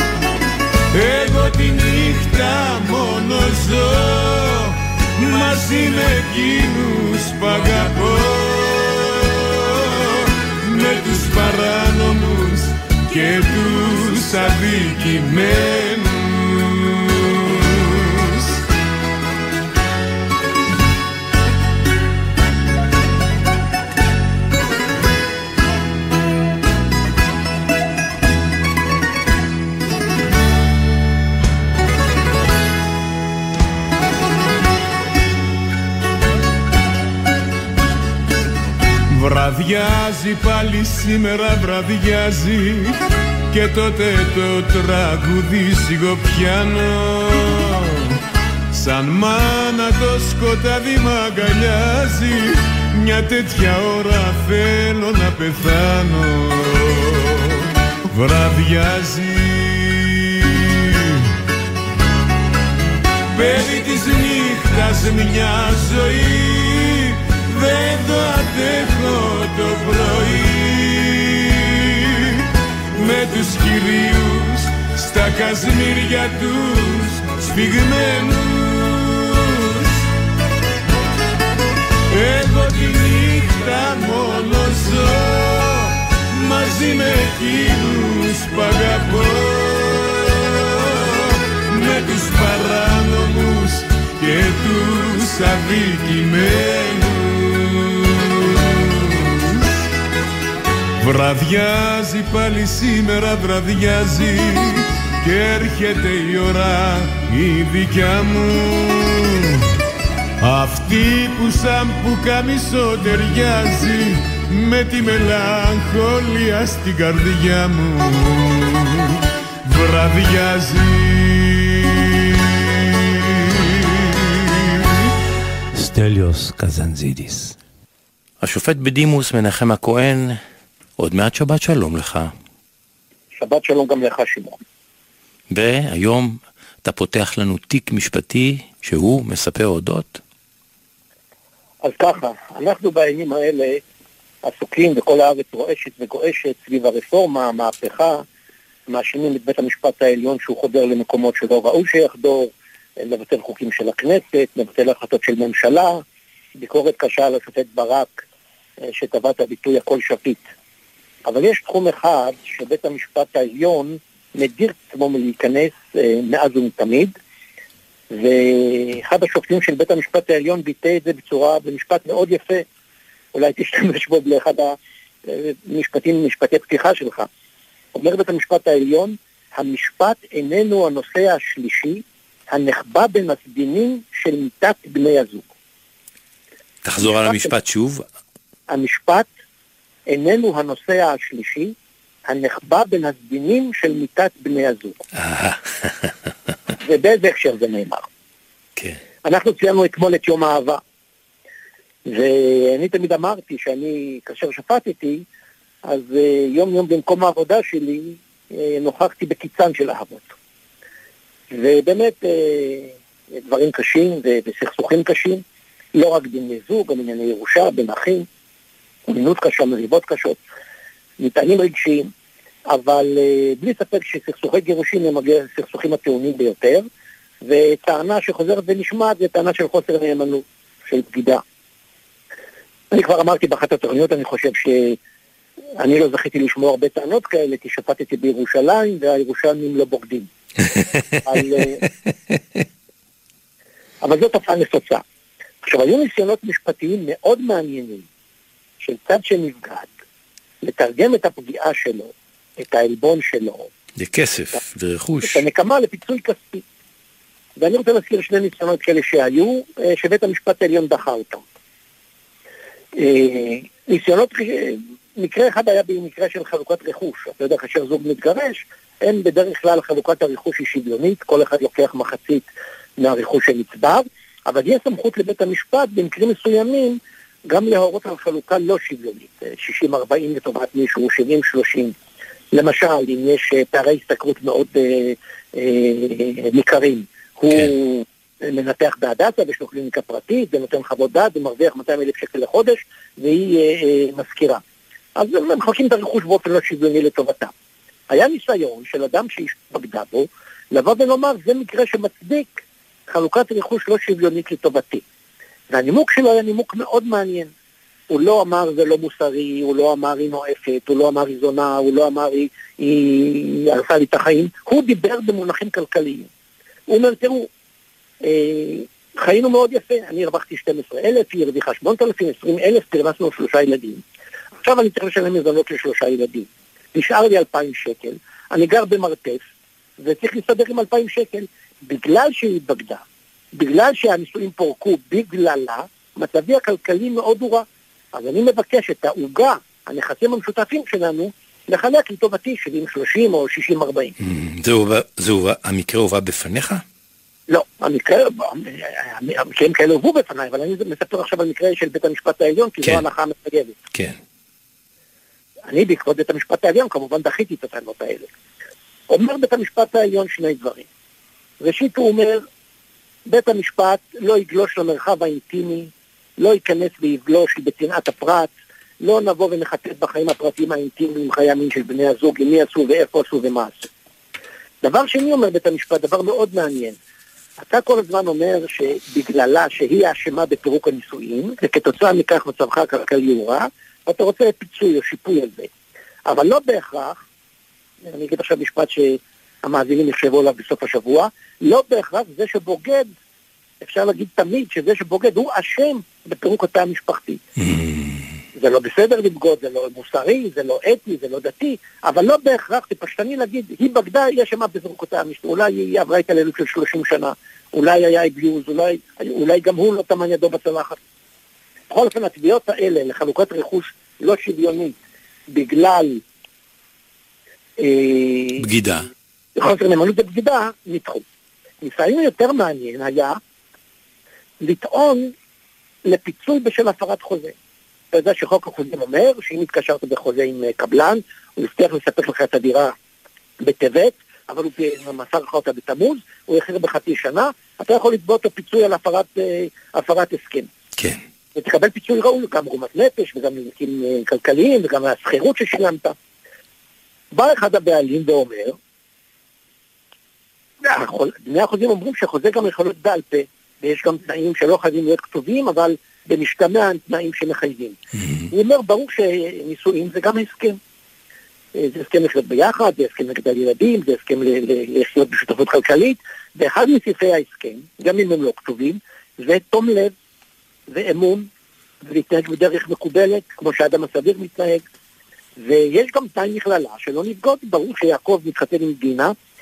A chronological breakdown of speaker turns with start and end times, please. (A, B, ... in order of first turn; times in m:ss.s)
0:00.9-0:18.6 A
0:39.1-0:43.0 A
0:43.5-0:48.2 A
0:48.7-1:01.3 A
1:03.3-1:20.0 A
1:22.1-1:39.7 A
1:41.0-1:49.7 A
1:50.4-2:04.2 A
2:05.7-2:07.6 B
2:08.4-2:10.4 B
2:11.0-2:12.3 B
2:13.4-2:14.6 C
2:15.5-2:20.2 B
2:21.8-2:23.8 C
2:24.4-2:28.2 C
2:28.9-2:36.0 C
2:36.6-2:38.2 C
2:38.8-2:40.4 C
2:41.2-2:47.1 C
2:48.1-2:52.6 C
2:53.3-2:57.3 C
2:58.0-3:05.4 C
3:06.8-3:08.1 B
3:07.0-3:07.5 C
3:08.7-3:09.3 C
3:10.1-3:11.7 C
3:12.3-3:15.0 C
3:15.1-3:16.1 B
3:16.8-3:18.1 C
3:18.8-3:19.0 B
3:19.2-3:20.8 C
3:22.1-3:25.2 C
3:25.9-3:30.3 C
3:31.5-3:35.4 C
3:36.0-3:38.3 C
3:39.1-3:40.4 C
3:41.2-3:42.1 C
3:42.7-3:46.8 C
3:47.4-3:51.4 C
3:52.9-3:55.0 C
3:55.8-4:00.3 C
4:01.3-4:01.8 C
4:04.0-4:05.0 C
4:05.6-4:08.1 C
4:08.8-4:09.9 C
4:10.6-4:13.7 C
4:14.0-4:15.4 B
4:15.2-4:16.6 C
4:17.6-4:21.4 C
4:23.0-4:32.5 C
4:33.0-4:37.0 C
4:37.5-4:41.9 C
4:42.5-4:54.6 C
4:55.2-4:57.5 C
4:58.1-5:05.0 C
5:05.7-5:07.5 C
5:08.1-5:16.3 C
5:16.9-5:17.5 C
5:18.2-5:24.0 C
5:24.6-5:29.4 C
5:30.0-5:33.0 C
5:33.6-5:44.1 C
5:44.2-5:46.8 B
5:47.5-5:53.8 C
5:53.9-5:54.2 B
5:55.7-5:58.3 C
5:59.1-6:00.9 C
6:01.6-6:02.4 C
6:03.3-6:08.5 C
6:09.0-6:13.9 C
6:14.8-6:17.0 C
6:17.6-6:25.7 C
6:26.3-6:27.2 C
6:28.0-6:33.1 C
6:33.8-6:37.4 C
6:37.6-6:38.3 B
6:38.6-6:51.0 C
6:51.9-6:55.0 C
6:55.5-6:56.2 C
6:57.8-6:58.6 C
6:58.6-6:59.1 B
6:59.6-7:01.2 C
7:01.8-7:03.4 C
7:04.6-7:05.3 C
7:06.1-7:07.5 C
7:08.1-7:12.9 C
7:13.6-7:20.7 C
7:21.6-7:26.1 C
7:27.3-7:28.8 C
7:30.8-7:38.0 C
7:38.2-7:38.5 B
7:38.5-7:40.8 C
7:41.8-7:50.1 C
7:50.9-7:51.5 C
7:52.0-7:54.8 C
7:55.6-7:59.3 C